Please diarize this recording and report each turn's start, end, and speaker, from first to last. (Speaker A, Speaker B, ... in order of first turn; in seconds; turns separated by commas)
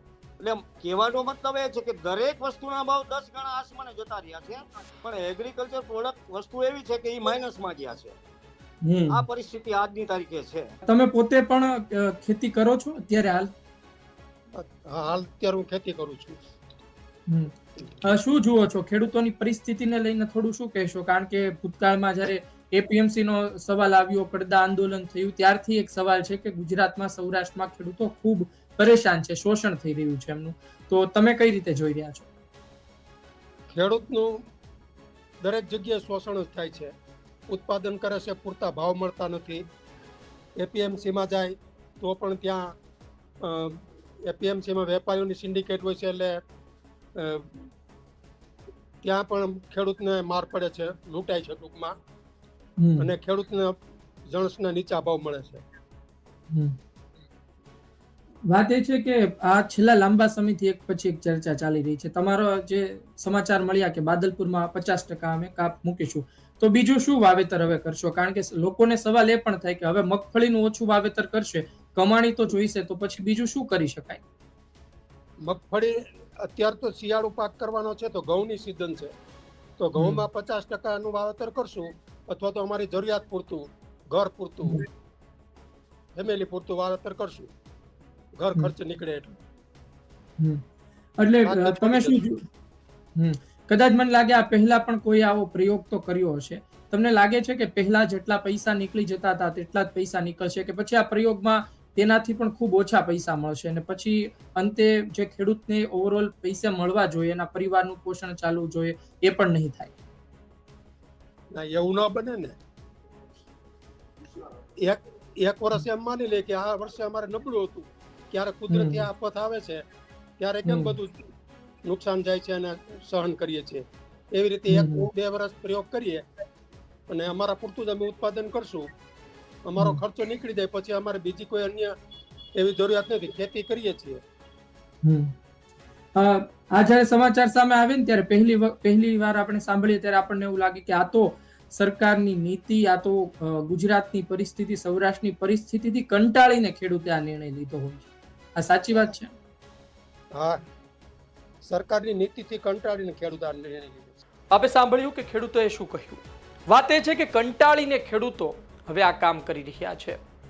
Speaker A: 0.4-8.2, Speaker B: 8.9-9.2, Speaker A: 9.1-10.7, Speaker B: 10.9-13.5, Speaker C: 14.6-16.4, Speaker B: 17.3-32.3, Speaker C: 33.7-34.4, Speaker C: 35.4-36.9, Speaker C: 37.5-39.6, Speaker C: 40.6-42.7, Speaker C: 43.4-46.4, Speaker C: 47.2-47.7, Speaker C: 49.0-52.0, Speaker B: 52.8-53.1, Speaker C: 53.0-53.8, Speaker C: 54.3-55.6, Speaker B: 58.5-74.2, Speaker C: 75.5-79.1, Speaker C: 79.8-84.8, Speaker B: 80.0-80.2, Speaker C: 86.2-87.5, Speaker C: 88.4-89.3, Speaker B: 91.2-92.4, Speaker C: 91.5-92.3, Speaker B: 93.2-109.9, Speaker C: 111.6-112.6, Speaker C: 114.8-119.8, Speaker B: 118.7-119.1, Speaker C: 120.4-121.3, Speaker B: 120.7-121.0, Speaker C: 121.9-123.8, Speaker C: 124.3-126.2, Speaker B: 124.7-125.1, Speaker C: 127.1-128.9, Speaker C: 129.7-131.9, Speaker C: 132.6-134.2, Speaker B: 135.1-135.3, Speaker B: 136.2-149.3, Speaker C: 150.3-150.6, Speaker C: 151.7-154.2, Speaker B: 154.5-160.2